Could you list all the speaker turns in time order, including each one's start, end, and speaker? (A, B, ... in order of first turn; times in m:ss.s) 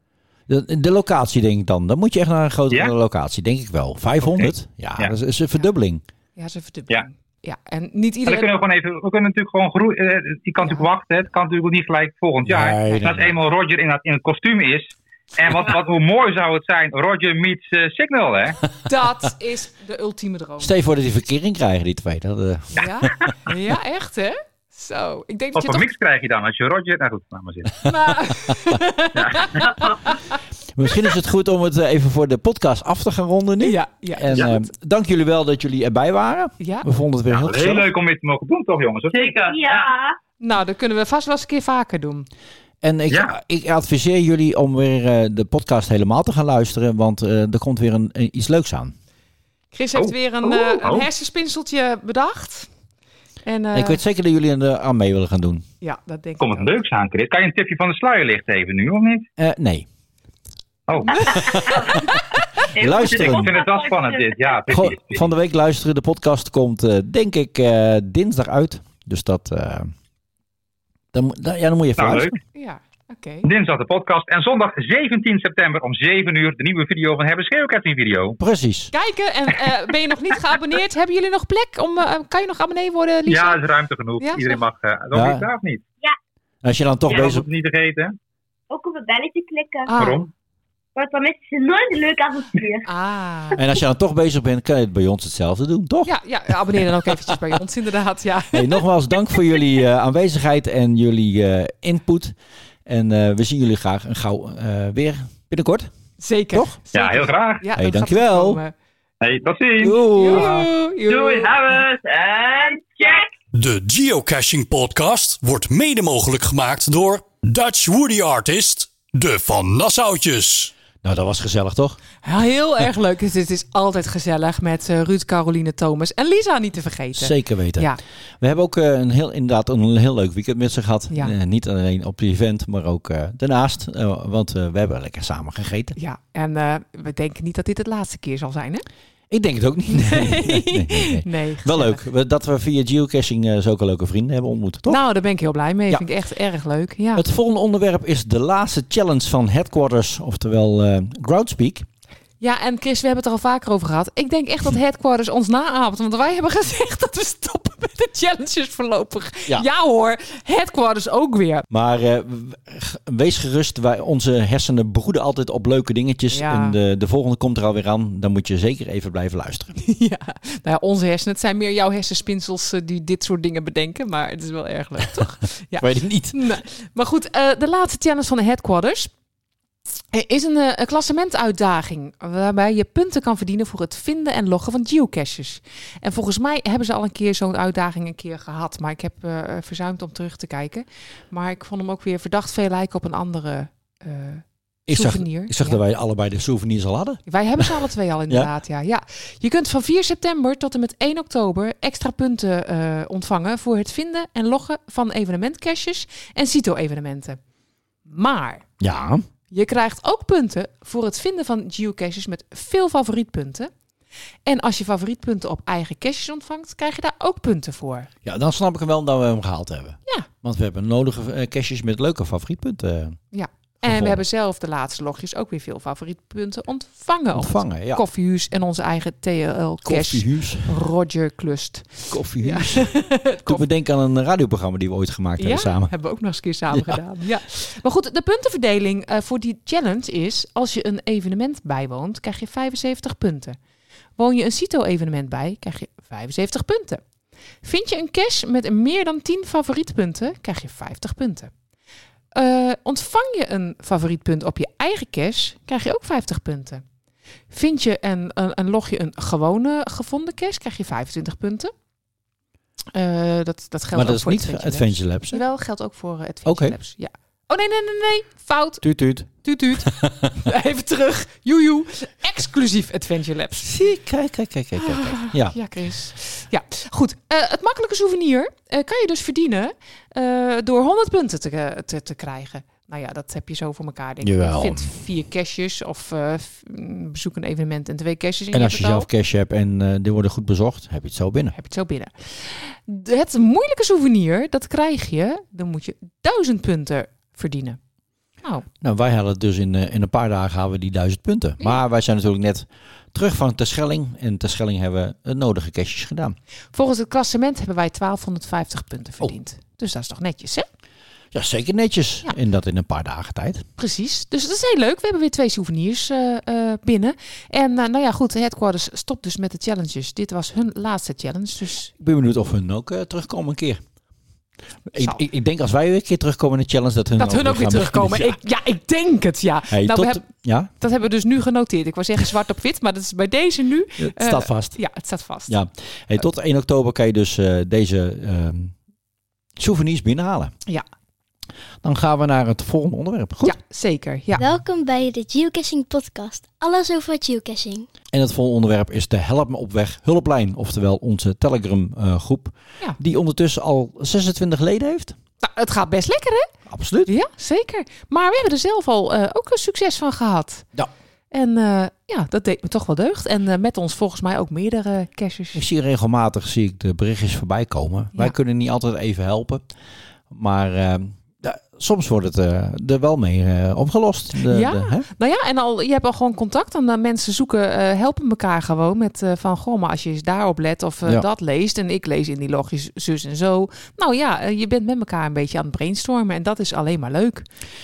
0:00.5-0:06.0 A
0:04.3-0:05.1 B
0:06.4-0:08.5 C
0:08.3-0:18.6 B
0:10.6-0:10.9 C
0:12.4-0:13.3 A
0:18.9-0:20.7 C
0:20.6-0:23.3 A
0:22.8-0:25.9 C
0:25.6-0:27.7 B
0:27.8-0:30.4 C
0:29.2-0:29.6 B
0:30.8-0:37.9 A
0:33.6-0:34.7 C
0:36.6-0:36.8 C
0:37.3-0:39.4 B
0:39.1-0:39.9 D
0:39.5-0:40.1 E
0:40.4-0:42.3 C
0:42.8-0:48.9 A
0:49.7-0:52.7 C
0:50.0-0:51.1 B
0:53.4-0:54.0 C
0:53.7-0:55.6 A
0:55.8-0:56.8 C
0:56.4-0:59.3 B
0:59.4-0:59.9 A
1:00.9-1:01.6 B
1:01.5-1:01.9 A
1:02.8-1:04.6 D
1:02.8-1:03.5 A
1:02.9-1:05.3 B
1:04.7-1:09.9 A
1:11.1-1:12.3 A
1:12.0-1:12.4 B
1:12.5-1:13.5 C
1:13.4-1:18.4 B
1:18.4-1:18.9 A
1:18.9-1:23.6 C
1:23.3-1:25.8 B
1:24.2-1:24.6 C
1:25.1-1:25.4 A
1:26.6-1:27.4 A
1:27.1-1:28.2 B
1:28.7-1:29.9 E
1:29.9-1:30.2 C
1:29.9-1:30.3 B
1:31.0-1:32.8 E
1:32.8-1:33.6 C
1:33.6-1:36.2 A
1:36.0-1:38.8 C
1:38.5-1:45.9 A
1:46.2-1:48.7 C
1:46.5-1:46.8 A
1:46.9-1:47.7 B
1:47.8-1:48.6 A
1:49.2-1:50.0 B
1:49.8-1:50.7 A
1:50.1-1:51.6 C
1:51.1-1:53.2 D
1:53.5-2:00.7 F
2:01.0-2:02.0 A
2:02.2-2:08.0 C
2:07.2-2:16.0 A
2:16.0-2:18.8 C
2:19.3-2:25.0 A
2:19.9-2:22.0 C
2:24.9-2:27.2 C
2:27.1-2:31.9 A
2:32.4-2:41.7 C
2:41.7-2:49.7 A
2:46.3-2:46.8 C
2:49.8-2:59.1 C
2:55.8-2:56.4 A
3:00.1-3:15.8 C
3:14.9-3:18.5 A
3:17.3-3:27.4 C
3:28.1-3:28.6 C
3:28.8-3:29.2 A
3:29.5-3:33.7 C
3:34.5-3:38.1 C
3:38.2-3:43.2 A
3:43.3-3:53.6 C
3:43.8-3:44.2 A
3:47.3-3:48.0 A
3:49.8-3:50.8 A
3:52.1-3:56.0 A
3:55.4-4:03.6 C
3:56.7-3:57.0 A
4:04.2-4:07.0 C
4:07.6-4:11.5 C
4:12.4-4:16.8 C
4:17.5-4:21.7 C
4:22.9-4:33.7 C
4:23.9-4:25.4 A
4:26.4-4:26.8 A
4:28.8-4:30.0 A
4:33.6-4:35.6 A
4:34.8-4:49.1 C
4:44.2-4:45.0 A
4:48.5-4:51.6 A
4:51.5-4:57.8 C
4:58.8-5:06.4 A
5:06.7-5:10.7 C
5:11.3-5:13.6 A
5:13.8-5:21.9 C
5:22.0-5:23.8 A
5:24.9-5:28.4 A
5:27.2-5:35.6 C
5:29.7-5:30.7 A
5:34.0-5:34.9 A
5:35.5-5:38.8 A
5:39.6-5:40.6 A
5:41.8-5:43.6 A
5:43.4-5:44.4 C
5:44.4-5:47.9 G
5:48.1-5:55.2 A
5:55.4-5:56.5 C
5:56.7-5:57.1 A
5:57.1-6:00.7 C
6:01.3-6:05.6 C
6:05.5-6:09.7 A
6:10.3-6:15.1 A
6:14.4-6:27.4 C